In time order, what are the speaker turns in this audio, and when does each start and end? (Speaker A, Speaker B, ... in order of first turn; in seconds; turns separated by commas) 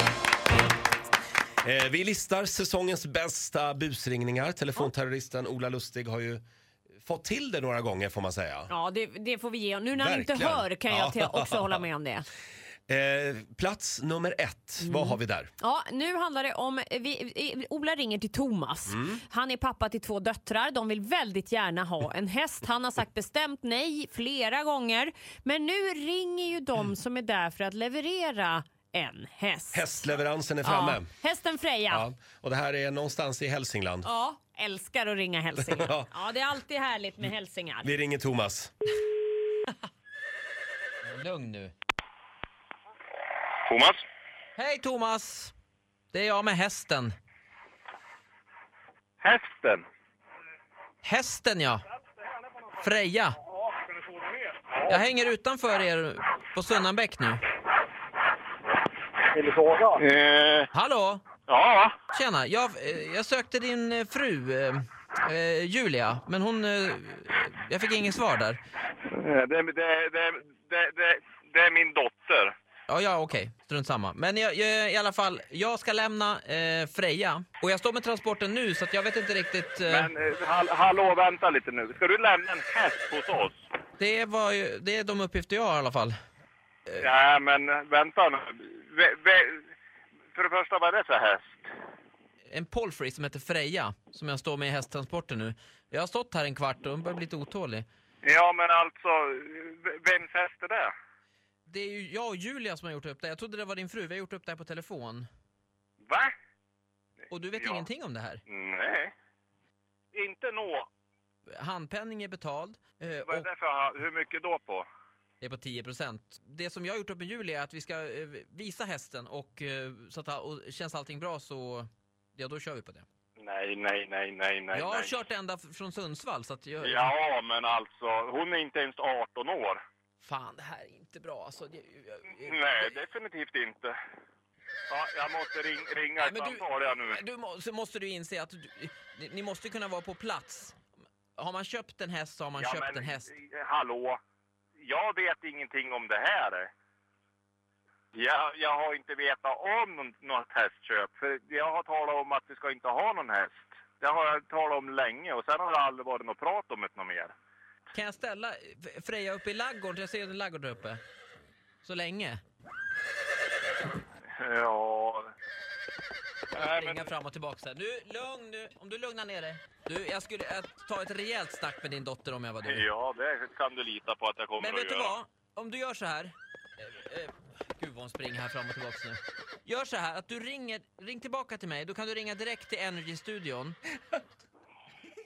Speaker A: 1.6-6.4, Speaker A: 7.0-8.7, Speaker B: 8.7-12.3, Speaker A: 9.9-11.8, Speaker A: 12.9-15.5, Speaker B: 14.8-29.9, Speaker A: 18.9-19.2, Speaker A: 29.7-31.1, Speaker B: 30.6-32.0, Speaker A: 31.9-34.1, Speaker B: 34.0-37.9, Speaker A: 35.5-36.1, Speaker A: 37.8-38.7, Speaker C: 41.0-41.7, Speaker D: 43.7-44.0, Speaker C: 44.6-45.5, Speaker C: 46.1-47.1, Speaker D: 49.2-49.8, Speaker C: 51.0-51.8, Speaker C: 52.8-53.4, Speaker D: 54.7-55.0, Speaker C: 54.9-57.4, Speaker D: 59.5-60.7, Speaker C: 60.7-61.2, Speaker D: 61.5-61.9, Speaker C: 62.1-68.6, Speaker D: 69.1-72.5, Speaker C: 72.9-80.1, Speaker D: 79.9-83.6, Speaker C: 84.0-86.1, Speaker D: 87.0-89.6, Speaker D: 90.3-91.7, Speaker C: 92.5-97.8, Speaker D: 98.2-100.9, Speaker C: 101.7-105.3, Speaker D: 106.0-106.3, Speaker C: 107.3-108.4, Speaker D: 107.5-107.8, Speaker D: 108.5-109.1, Speaker D: 110.1-110.9, Speaker C: 111.6-113.5, Speaker D: 113.2-114.8, Speaker C: 115.4-123.0, Speaker D: 123.4-125.1, Speaker C: 124.7-127.1, Speaker D: 126.8-129.8, Speaker C: 130.2-132.9, Speaker D: 132.4-133.9, Speaker D: 134.9-137.2, Speaker C: 136.2-140.8, Speaker C: 141.4-143.3, Speaker D: 142.6-144.2, Speaker D: 144.8-146.7, Speaker D: 148.1-157.3, Speaker C: 157.9-161.0, Speaker C: 161.8-162.4, Speaker D: 164.4-165.3, Speaker D: 166.5-167.1, Speaker C: 166.5-172.8, Speaker D: 172.6-175.1, Speaker C: 174.6-183.8